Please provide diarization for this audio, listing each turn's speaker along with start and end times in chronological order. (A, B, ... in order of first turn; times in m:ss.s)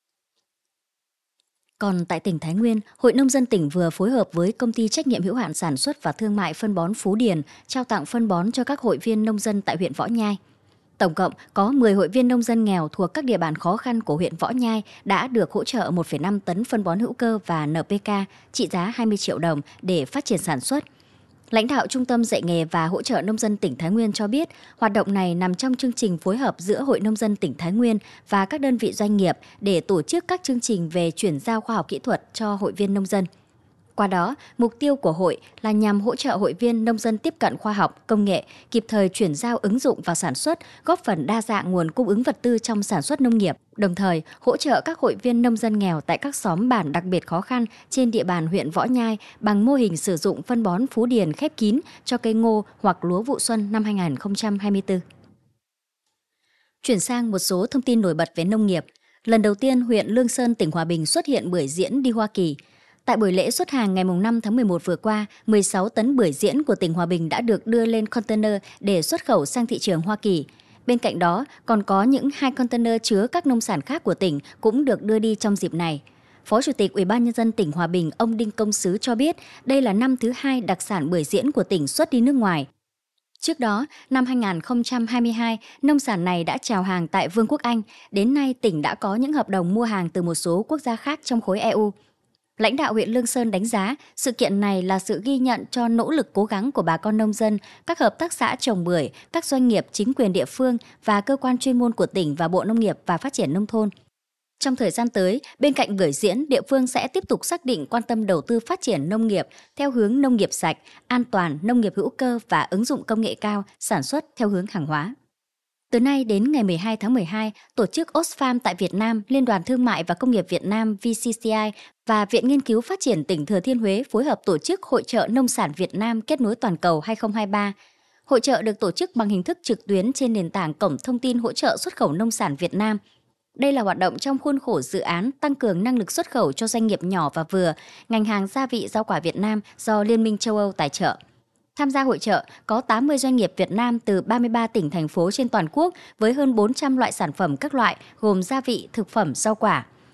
0:01.8-0:10.4 A
0:11.0-0:20.8 A
0:21.5-0:33.3 A
0:34.0-0:55.0 A
0:56.8-1:22.7 A
1:23.4-1:31.9 A
1:32.6-1:43.9 A
1:44.6-1:55.1 A
1:55.9-2:07.7 A
2:08.3-2:13.0 A
2:13.6-2:21.2 A
2:21.8-2:29.8 A